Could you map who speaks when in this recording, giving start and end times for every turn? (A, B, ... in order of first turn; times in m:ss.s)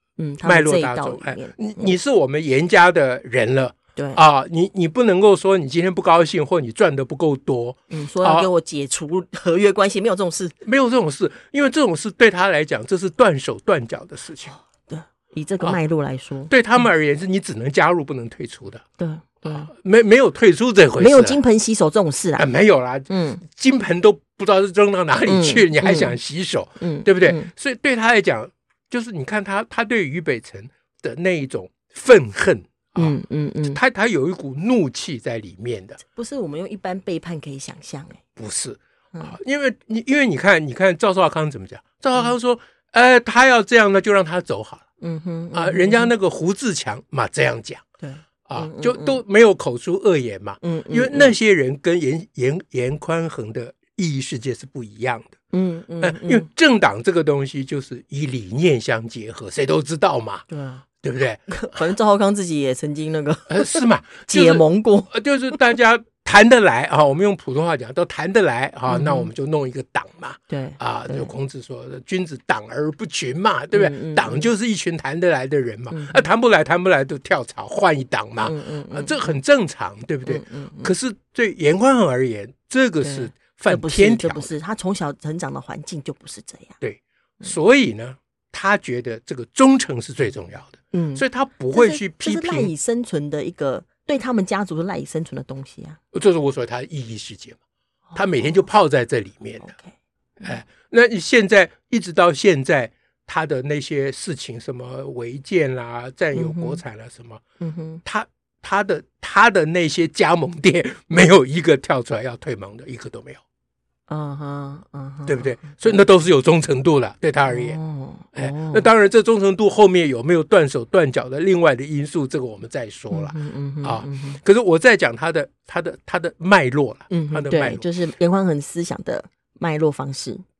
0:00.2-0:02.0 A
0:00.4-0:08.5 B
0:04.0-0:04.2 A
0:07.9-0:10.5 A
0:10.6-0:14.5 B
0:14.5-0:16.5 A
0:16.5-0:18.8 B
0:19.0-0:19.7 A
0:19.4-0:21.4 B
0:21.0-0:22.4 A
0:22.4-0:36.0 B
0:23.1-0:23.4 A
0:25.2-0:26.1 A
0:26.8-0:27.5 A
0:33.0-0:33.8 A
0:36.0-0:38.2 A
0:38.4-0:44.8 B
0:45.0-0:46.1 A
0:45.5-0:47.8 B
0:48.0-0:49.2 A
0:48.5-0:55.4 B
0:50.6-0:51.4 A
0:55.5-0:56.4 A
0:56.0-1:00.4 B
1:00.5-1:00.8 A
1:01.0-1:01.8 B
1:01.5-1:05.1 A
1:03.5-1:24.5 B
1:08.9-1:09.3 A
1:10.5-1:11.3 A
1:13.7-1:14.5 A
1:15.9-1:16.3 A
1:18.4-1:19.3 A
1:20.2-1:20.9 A
1:23.0-1:26.7 A
1:26.8-1:32.7 B
1:30.9-1:36.0 A
1:36.1-1:37.6 B
1:38.1-1:38.5 A
1:38.2-1:39.7 B
1:39.6-1:39.9 A
1:40.4-1:47.4 B
1:46.3-1:46.8 A
1:47.6-1:48.0 A
1:48.0-1:53.4 B
1:54.1-1:55.7 A
1:55.2-1:57.8 B
1:57.5-1:58.9 A
1:58.4-2:07.8 B
2:03.1-2:04.4 A
2:07.1-2:10.4 A